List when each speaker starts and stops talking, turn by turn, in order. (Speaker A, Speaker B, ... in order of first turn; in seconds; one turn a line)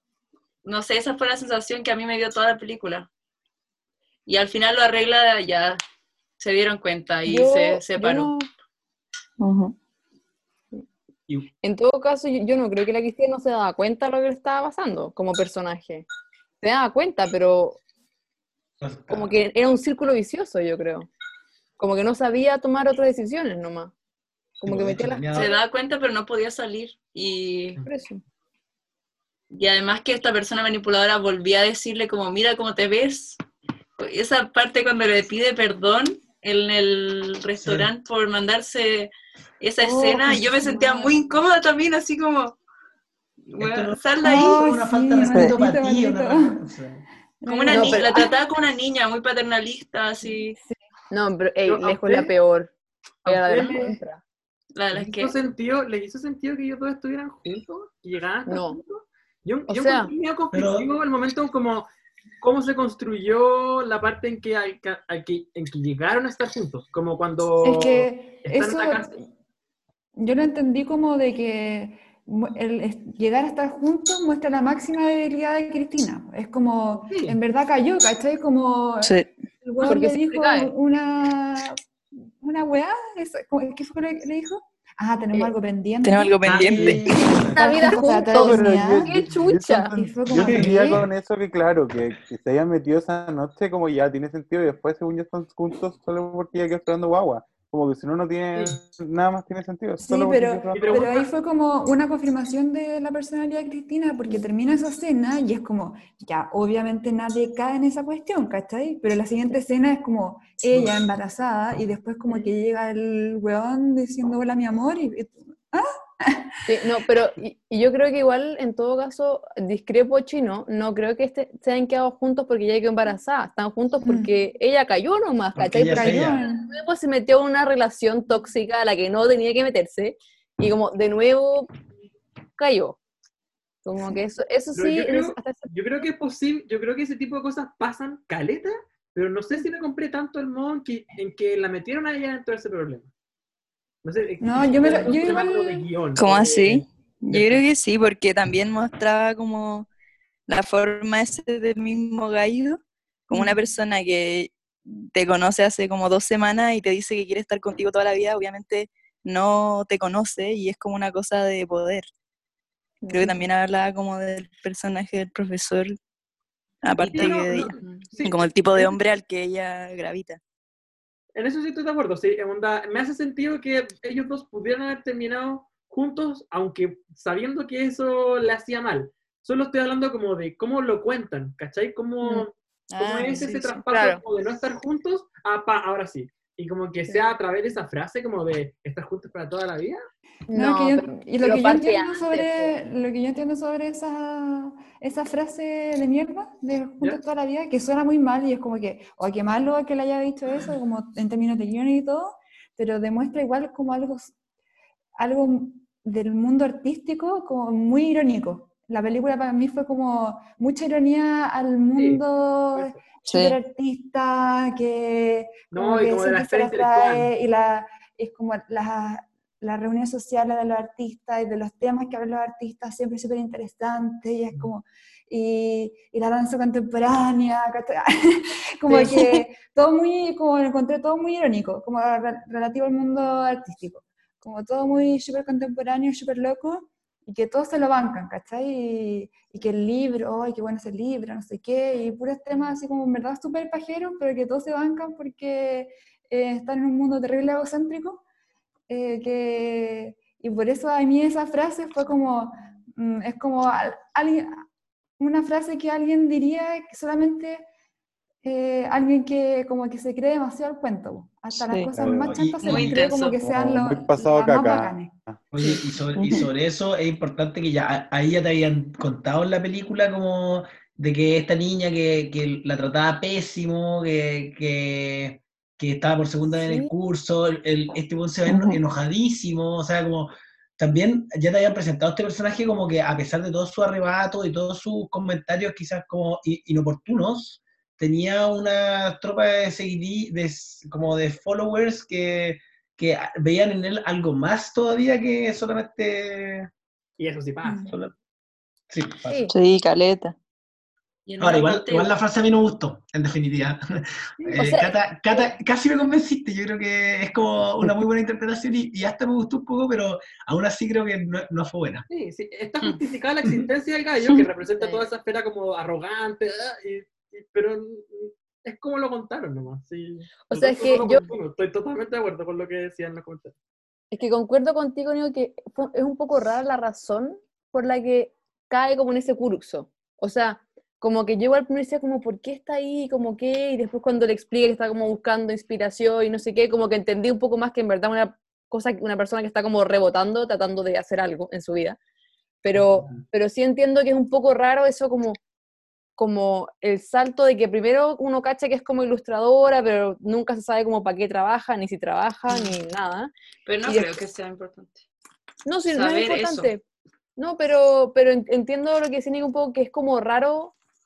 Speaker A: 0.7-3.1
Speaker A: 4.3-5.8
Speaker A: 6.4-8.3
Speaker B: 7.3-8.5
Speaker C: 9.4-9.8
Speaker B: 11.6-16.1
Speaker B: 16.6-17.8
Speaker D: 18.8-19.4
Speaker B: 19.1-21.1
Speaker B: 21.8-23.9
Speaker B: 24.6-25.5
Speaker D: 24.6-25.6
Speaker A: 25.3-27.8
Speaker B: 27.8-28.2
Speaker A: 29.5-33.4
Speaker A: 34.0-42.6
Speaker D: 37.6-37.9
Speaker E: 39.8-41.2
Speaker A: 43.5-44.8
Speaker D: 43.6-47.0
Speaker E: 44.2-46.6
Speaker E: 47.4-48.1
Speaker A: 47.5-50.6
Speaker B: 47.7-48.2
Speaker B: 51.1-52.7
Speaker F: 51.6-52.3
Speaker B: 53.2-54.2
Speaker F: 53.2-54.0
Speaker A: 54.8-55.4
Speaker F: 54.9-61.9
Speaker B: 58.5-58.8
Speaker B: 59.7-60.1
Speaker D: 60.5-60.9
Speaker F: 62.4-69.1
Speaker E: 67.6-69.2
Speaker E: 70.2-81.8
Speaker F: 77.1-77.4
Speaker C: 79.0-79.3
Speaker B: 79.8-80.7
Speaker E: 82.4-89.2
Speaker C: 86.0-88.0
Speaker F: 86.4-87.0
Speaker D: 86.5-87.8
Speaker B: 87.4-89.9
Speaker G: 88.3-101.0
Speaker E: 89.9-91.1
Speaker D: 90.3-91.0
Speaker E: 100.0-116.5
Speaker F: 100.7-101.3
Speaker B: 116.7-131.7
Speaker E: 124.0-124.3
Speaker D: 125.5-126.4
Speaker E: 125.8-126.7
Speaker B: 132.6-133.0
Speaker B: 133.8-135.7
Speaker F: 134.7-143.1
Speaker F: 144.0-147.6
Speaker E: 144.4-145.9
Speaker C: 146.2-149.9
Speaker C: 150.5-162.1
Speaker B: 163.0-163.4
Speaker C: 163.1-166.0
Speaker C: 166.8-170.4
Speaker A: 167.0-168.1
Speaker F: 167.1-168.4
Speaker F: 171.3-190.1
Speaker C: 183.0-183.8
Speaker A: 183.0-184.0
Speaker B: 190.5-192.8
Speaker E: 190.5-204.3
Speaker E: 205.2-248.2
Speaker F: 212.0-213.0
Speaker C: 213.3-213.6
Speaker F: 215.7-217.3
Speaker C: 228.9-229.4
Speaker E: 248.9-254.7
Speaker E: 255.2-257.6
Speaker E: 258.4-265.1
Speaker C: 261.6-261.9
Speaker G: 262.0-262.3
Speaker D: 262.1-263.0
Speaker A: 262.6-263.4
Speaker G: 263.5-265.4
Speaker D: 265.5-296.7
Speaker C: 265.6-266.5
Speaker B: 276.5-276.9
Speaker C: 278.5-278.8
Speaker F: 297.2-297.8
Speaker E: 297.6-297.9
Speaker D: 298.9-299.4
Speaker B: 299.3-299.5
Speaker C: 299.5-300.4
Speaker A: 301.3-302.1
Speaker D: 301.4-312.1
Speaker B: 304.6-305.5
Speaker F: 312.1-323.5
Speaker B: 314.8-315.1
Speaker B: 320.5-321.3
Speaker B: 324.1-342.0
Speaker B: 342.6-345.4
Speaker D: 342.8-343.2
Speaker B: 346.2-353.3
Speaker A: 352.5-352.8
Speaker A: 353.7-355.0
Speaker B: 353.9-354.1
Speaker B: 355.6-356.8
Speaker A: 355.9-356.7
Speaker B: 357.4-360.7